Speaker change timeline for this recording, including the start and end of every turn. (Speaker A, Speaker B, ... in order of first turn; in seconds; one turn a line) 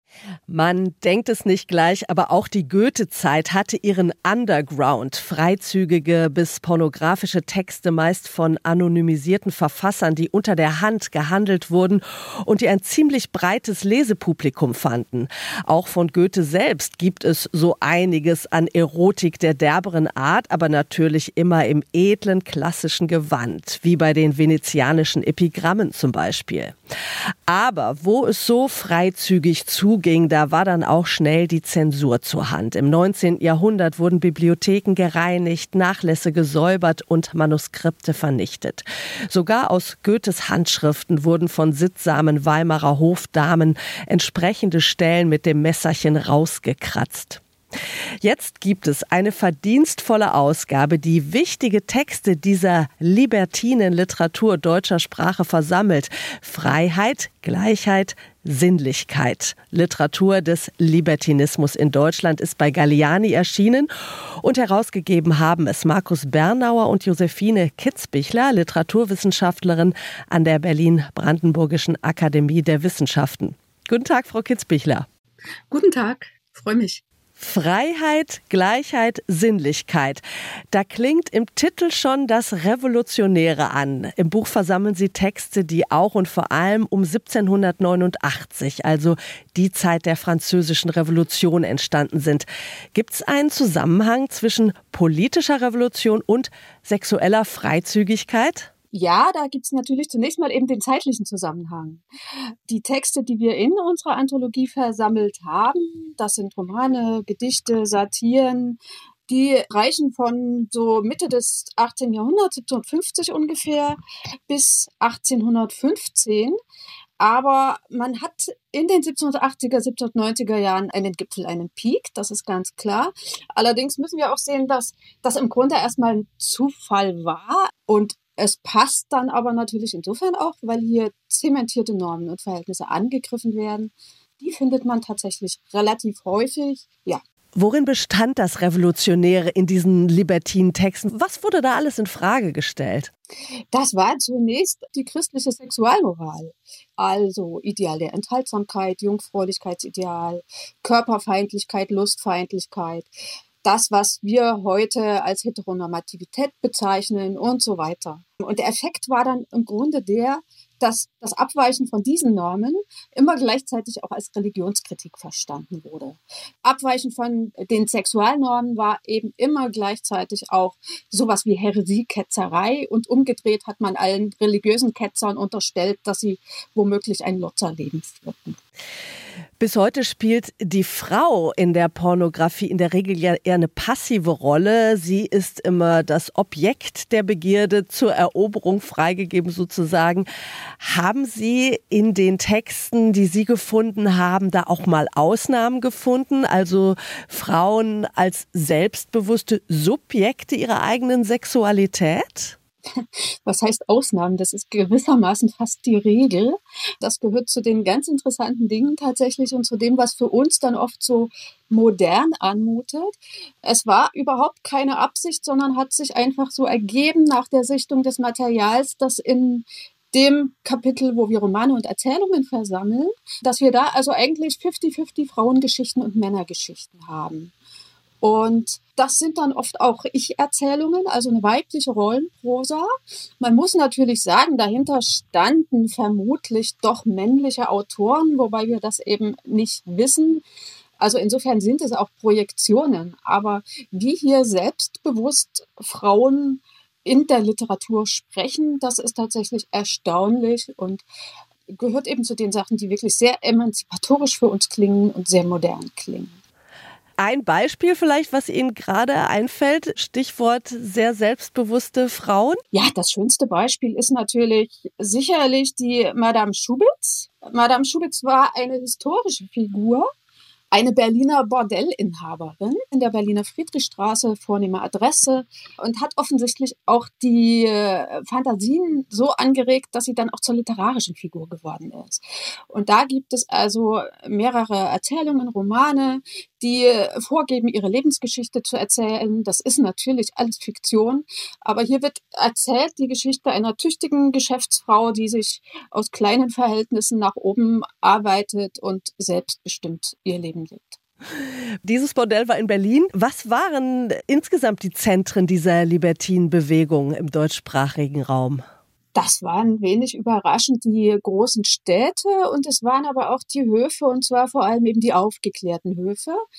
Speaker A: 0.5-26.8
Speaker A: 27.5-47.4
Speaker A: 48.2-63.9
Speaker A: 64.4-75.0
Speaker B: 75.7-77.0
Speaker A: 77.4-80.2
Speaker A: 80.7-98.7
Speaker B: 98.9-102.0
Speaker B: 102.7-116.6
Speaker B: 117.2-137.2
Speaker A: 137.5-143.1
Speaker B: 143.7-153.1
Speaker B: 153.6-178.6
Speaker A: 179.6-190.2
Speaker A: 190.8-202.5
Speaker B: 202.9-227.5
Speaker B: 228.2-240.4
Speaker B: 241.0-251.0
Speaker B: 251.7-256.4
Speaker A: 257.2-262.6
Speaker B: 262.7-270.1
Speaker B: 270.7-301.0
Speaker A: 301.9-308.6
Speaker B: 309.1-316.4